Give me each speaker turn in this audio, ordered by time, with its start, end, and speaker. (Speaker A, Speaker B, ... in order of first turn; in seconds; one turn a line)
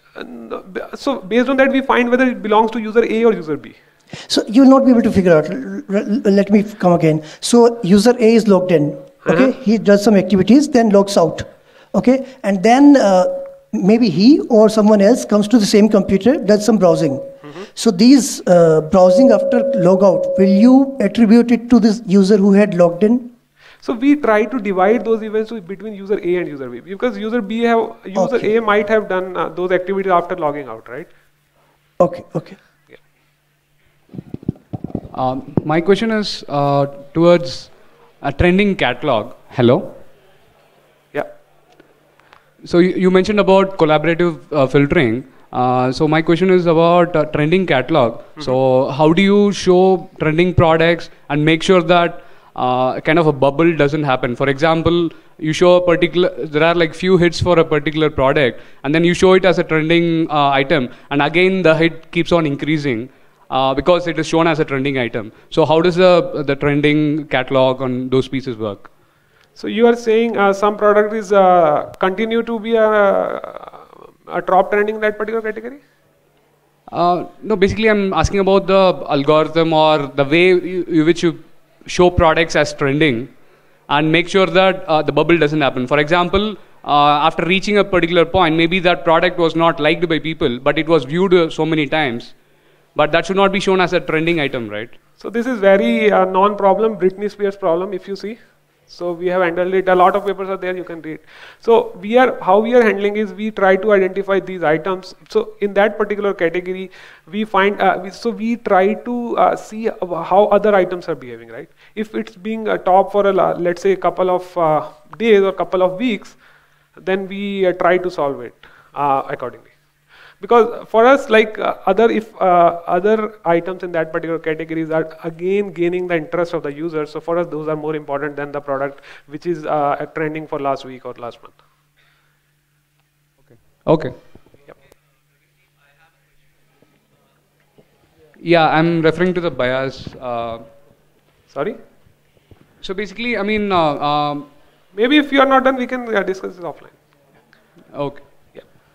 Speaker A: 0.1-3.8
Speaker B: 4.3-23.3
Speaker A: 9.2-9.5
Speaker A: 23.8-31.1
Speaker B: 28.1-28.5
Speaker B: 32.0-32.6
Speaker C: 35.1-40.0
Speaker C: 42.6-68.9
Speaker A: 69.5-75.8
Speaker C: 76.9-92.4
Speaker C: 92.9-95.0
Speaker A: 95.2-116.4
Speaker A: 117.0-119.7
Speaker A: 120.4-131.6
Speaker C: 133.5-134.2
Speaker C: 138.4-140.7
Speaker A: 141.5-141.8
Speaker C: 142.8-144.5
Speaker A: 144.9-147.0
Speaker C: 147.9-148.3